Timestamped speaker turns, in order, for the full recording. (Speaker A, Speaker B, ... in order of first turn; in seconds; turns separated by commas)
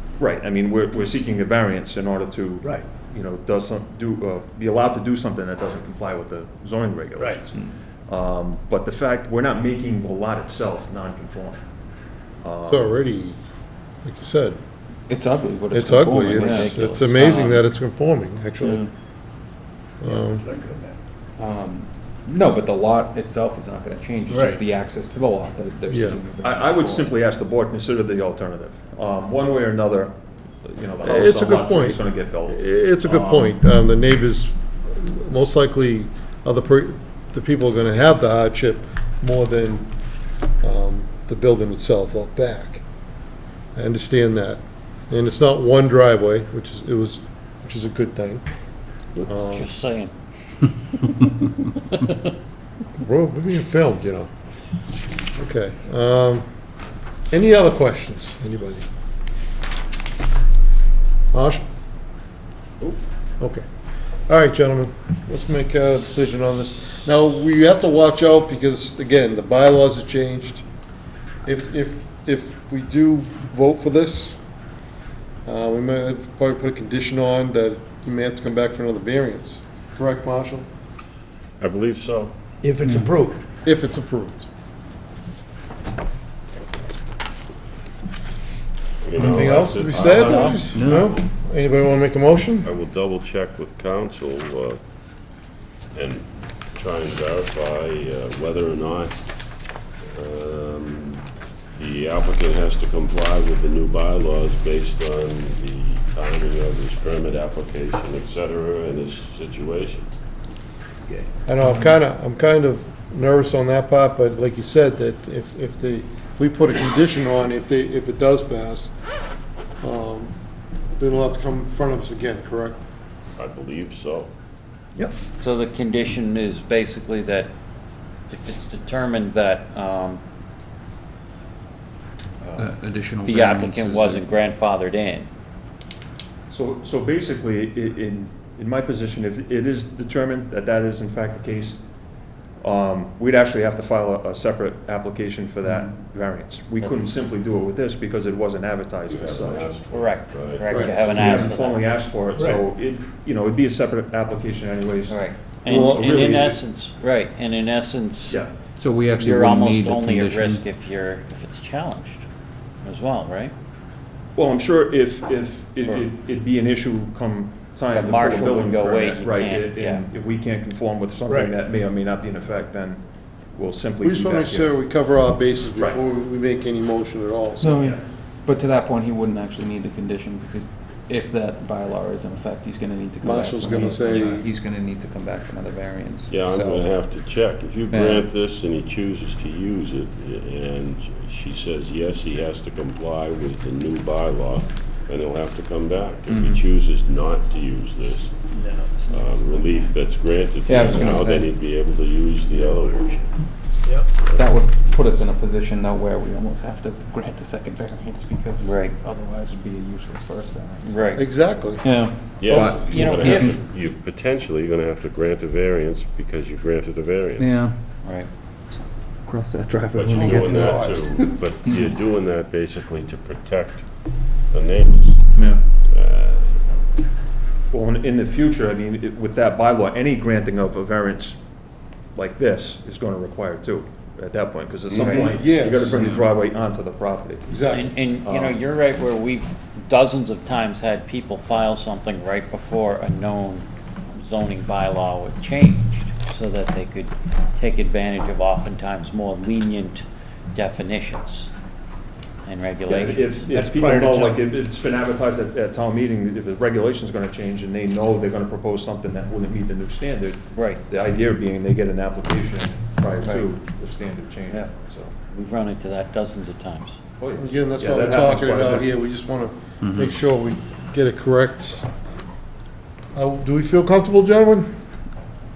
Speaker A: 0.2-11.6, Speaker B: 7.2-7.4, Speaker A: 12.4-13.0, Speaker C: 12.7-13.4, Speaker C: 14.0-14.6, Speaker D: 15.1-16.8, Speaker C: 15.7-18.9, Speaker E: 16.6-17.5, Speaker D: 18.6-18.9, Speaker C: 20.0-20.5, Speaker B: 20.1-21.0, Speaker D: 21.4-27.1, Speaker B: 24.3-24.6, Speaker C: 25.9-26.2, Speaker A: 26.4-33.5, Speaker C: 31.0-39.9, Speaker C: 40.6-42.8, Speaker C: 43.8-48.5, Speaker E: 49.2-50.1, Speaker C: 49.3-49.7, Speaker C: 53.0-54.3, Speaker C: 55.4-56.5, Speaker C: 57.3-58.9, Speaker C: 61.3-61.6, Speaker C: 64.3-70.6, Speaker C: 71.5-74.4, Speaker C: 75.5-80.7, Speaker F: 81.6-82.3, Speaker B: 82.6-83.4, Speaker D: 82.8-83.2, Speaker C: 83.7-84.5, Speaker F: 89.0-90.8, Speaker C: 89.2-92.7, Speaker D: 89.2-89.5, Speaker D: 90.6-91.1, Speaker F: 92.6-94.8, Speaker F: 95.9-99.2, Speaker F: 100.1-110.1, Speaker C: 111.5-118.9, Speaker C: 119.8-120.3, Speaker C: 121.0-122.8, Speaker F: 123.4-124.3, Speaker E: 125.4-127.5, Speaker E: 128.3-130.2, Speaker D: 132.6-134.2, Speaker E: 133.2-135.3, Speaker A: 136.5-141.8, Speaker A: 142.6-149.7, Speaker E: 146.8-147.1, Speaker F: 149.1-151.2, Speaker E: 149.9-151.9, Speaker C: 150.7-151.0, Speaker A: 151.0-156.6, Speaker B: 152.4-152.6, Speaker E: 155.1-158.4, Speaker C: 155.7-156.3, Speaker D: 158.8-160.6, Speaker E: 159.2-162.2, Speaker E: 162.8-163.5, Speaker A: 164.4-173.0, Speaker E: 167.9-170.1, Speaker B: 171.3-171.5, Speaker A: 173.5-174.7, Speaker C: 174.0-177.9, Speaker D: 177.6-186.9, Speaker C: 183.2-184.5, Speaker F: 186.3-198.4, Speaker D: 187.9-188.3, Speaker D: 196.3-196.6, Speaker B: 198.6-199.1, Speaker F: 199.1-203.3, Speaker D: 200.7-201.6, Speaker B: 202.6-203.2, Speaker F: 204.2-204.5, Speaker D: 204.3-213.6, Speaker E: 208.6-209.0, Speaker E: 210.8-211.2, Speaker C: 211.2-211.8, Speaker F: 212.4-217.6, Speaker E: 213.0-213.5, Speaker D: 217.4-217.8, Speaker E: 218.0-218.3, Speaker D: 219.3-221.9, Speaker F: 219.9-225.3, Speaker C: 220.2-221.0, Speaker D: 225.3-225.6, Speaker F: 225.9-226.6, Speaker A: 227.7-231.4, Speaker A: 232.2-237.4, Speaker C: 234.9-236.1, Speaker E: 234.9-235.3, Speaker D: 235.9-236.2, Speaker C: 237.5-237.9, Speaker E: 237.7-251.5, Speaker A: 238.2-238.6, Speaker E: 252.4-253.4, Speaker A: 252.9-265.1, Speaker B: 253.5-254.5, Speaker E: 260.5-260.8, Speaker E: 265.3-267.0, Speaker A: 267.2-268.9, Speaker C: 267.4-271.9, Speaker D: 269.8-270.1, Speaker C: 273.1-274.7